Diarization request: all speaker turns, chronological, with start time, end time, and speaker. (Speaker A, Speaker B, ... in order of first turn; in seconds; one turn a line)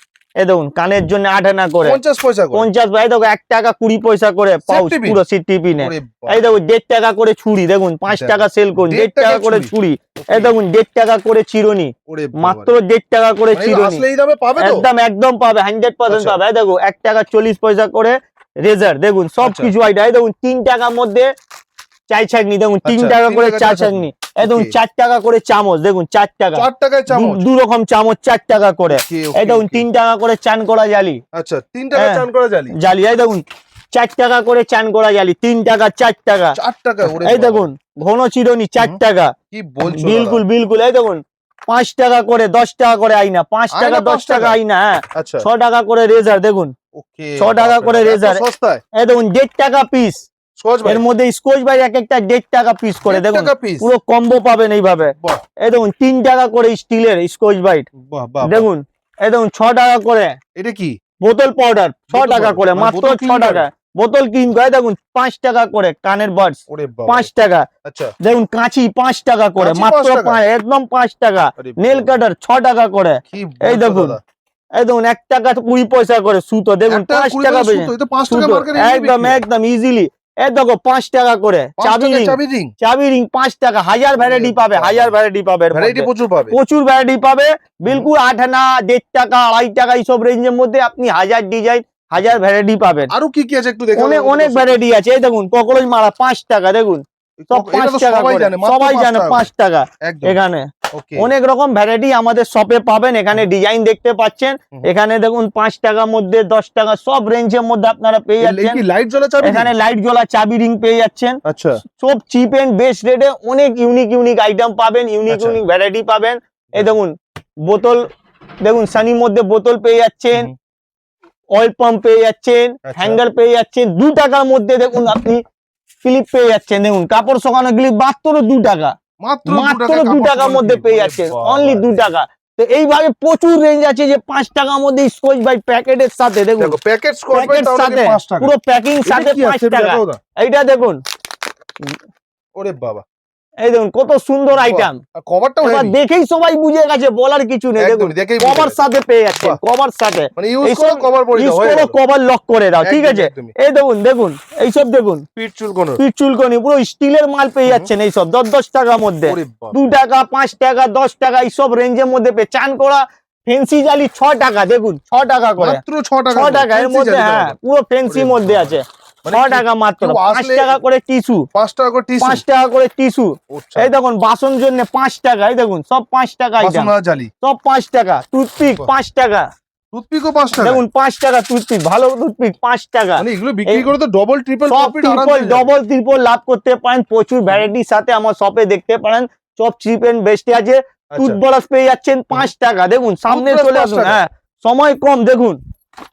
Speaker A: 0.4-2.0
Speaker B: 1.8-2.7
Speaker A: 2.5-14.0
Speaker B: 4.7-5.2
Speaker B: 5.8-6.5
Speaker B: 8.1-10.5
Speaker B: 12.1-12.8
Speaker B: 13.5-14.9
Speaker A: 14.6-21.3
Speaker B: 16.1-16.4
Speaker B: 19.4-19.7
Speaker A: 22.1-31.2
Speaker B: 22.9-24.7
Speaker B: 26.6-27.4
Speaker B: 28.9-29.9
Speaker B: 31.4-32.8
Speaker A: 32.0-36.6
Speaker B: 36.5-37.7
Speaker A: 37.1-39.3
Speaker B: 39.5-40.4
Speaker A: 39.9-46.7
Speaker B: 43.7-44.6
Speaker B: 45.1-45.5
Speaker B: 47.0-48.8
Speaker A: 47.4-48.4
Speaker A: 48.9-50.2
Speaker B: 50.6-51.0
Speaker A: 50.9-57.9
Speaker B: 53.1-53.9
Speaker B: 55.1-55.4
Speaker B: 58.0-58.7
Speaker A: 58.4-60.4
Speaker B: 60.6-61.0
Speaker A: 61.2-67.7
Speaker B: 62.1-63.7
Speaker B: 66.7-67.3
Speaker B: 67.8-68.1
Speaker A: 68.2-74.2
Speaker B: 69.6-70.4
Speaker B: 71.6-72.2
Speaker B: 73.3-74.2
Speaker A: 74.8-93.1
Speaker B: 76.9-79.4
Speaker B: 81.8-82.7
Speaker B: 84.2-85.1
Speaker B: 85.7-86.6
Speaker B: 93.1-94.8
Speaker A: 94.0-108.8
Speaker B: 97.4-99.5
Speaker B: 100.0-100.4
Speaker B: 100.9-101.3
Speaker B: 108.4-109.7
Speaker A: 109.4-111.4
Speaker B: 111.5-111.8
Speaker A: 112.0-117.1
Speaker B: 115.3-115.6
Speaker A: 117.7-118.0
Speaker A: 118.6-120.5
Speaker A: 121.5-125.4
Speaker B: 122.9-123.2
Speaker A: 126.0-128.9
Speaker B: 129.2-132.0
Speaker A: 129.5-136.8
Speaker B: 136.6-140.2
Speaker A: 137.3-141.0
Speaker B: 142.6-143.0
Speaker A: 143.6-145.0
Speaker B: 144.5-146.0
Speaker A: 145.6-155.2
Speaker B: 147.8-148.8
Speaker B: 149.3-149.6
Speaker B: 150.4-152.0
Speaker B: 152.8-153.5
Speaker B: 155.4-156.0
Speaker A: 156.0-165.8
Speaker B: 159.3-159.8
Speaker B: 165.6-167.6
Speaker A: 166.3-171.5
Speaker B: 168.1-170.7
Speaker B: 171.5-172.4
Speaker A: 172.2-176.9
Speaker B: 173.5-173.9
Speaker B: 176.6-177.3
Speaker A: 177.4-179.5
Speaker B: 179.9-180.8
Speaker A: 180.6-183.9
Speaker B: 183.2-185.7
Speaker A: 184.7-195.6
Speaker B: 191.1-191.4
Speaker B: 193.3-194.2